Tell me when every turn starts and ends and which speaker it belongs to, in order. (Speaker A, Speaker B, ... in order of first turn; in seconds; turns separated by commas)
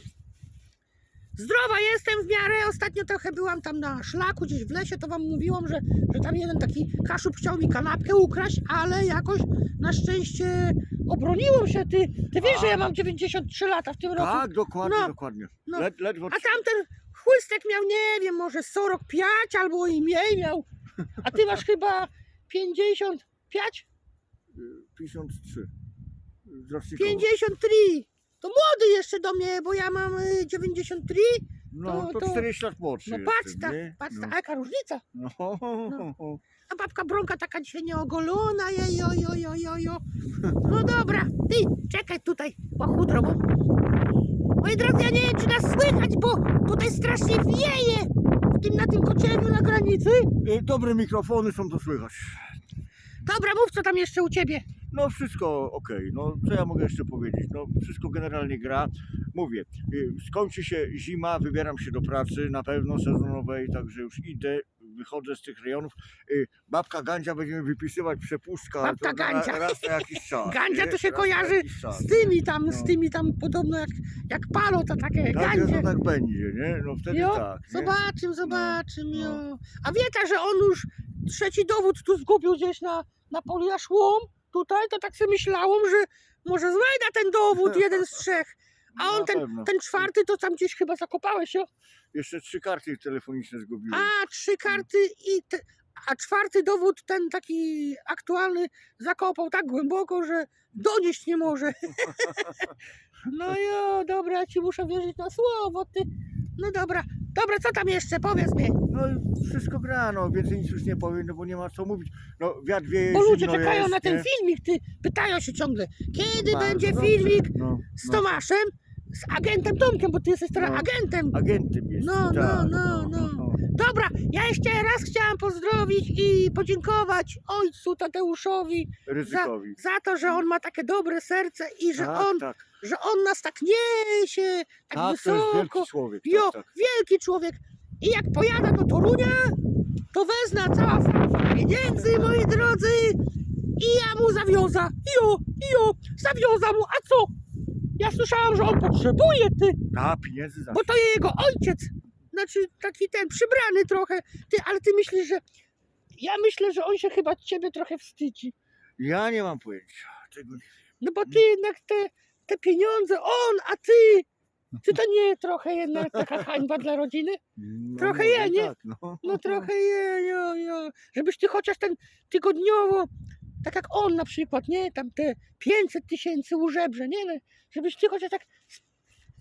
Speaker A: 1.4-15.1, Speaker B: 12.4-12.9, Speaker B: 14.1-16.6, Speaker A: 15.7-20.6, Speaker A: 21.2-23.9, Speaker B: 24.5-25.7, Speaker B: 26.4-27.3, Speaker A: 26.9-32.5, Speaker B: 31.7-34.3, Speaker A: 33.0-35.0, Speaker B: 35.1-36.4, Speaker A: 36.7-40.0, Speaker B: 40.3-40.7, Speaker A: 40.6-43.4, Speaker A: 44.6-50.3, Speaker B: 50.4-52.5, Speaker A: 53.2-54.6, Speaker B: 54.9-73.0, Speaker A: 68.8-75.9, Speaker B: 75.3-79.4, Speaker A: 77.1-91.7, Speaker B: 89.0-89.7, Speaker B: 92.1-94.1, Speaker A: 93.9-102.7, Speaker A: 103.2-108.8, Speaker B: 108.9-114.3, Speaker A: 113.1-121.3, Speaker B: 116.2-118.4, Speaker B: 120.5-123.6, Speaker A: 122.0-139.6, Speaker B: 129.1-130.5, Speaker B: 131.9-132.7, Speaker B: 134.9-136.7, Speaker A: 140.1-143.2, Speaker A: 143.8-147.3, Speaker A: 148.0-149.8, Speaker B: 149.9-150.9, Speaker A: 150.7-155.4, Speaker A: 156.2-158.5, Speaker B: 159.0-160.7, Speaker A: 161.0-164.3, Speaker A: 164.8-167.4, Speaker B: 167.6-169.7, Speaker A: 168.0-168.7, Speaker A: 169.2-173.1, Speaker A: 173.6-178.8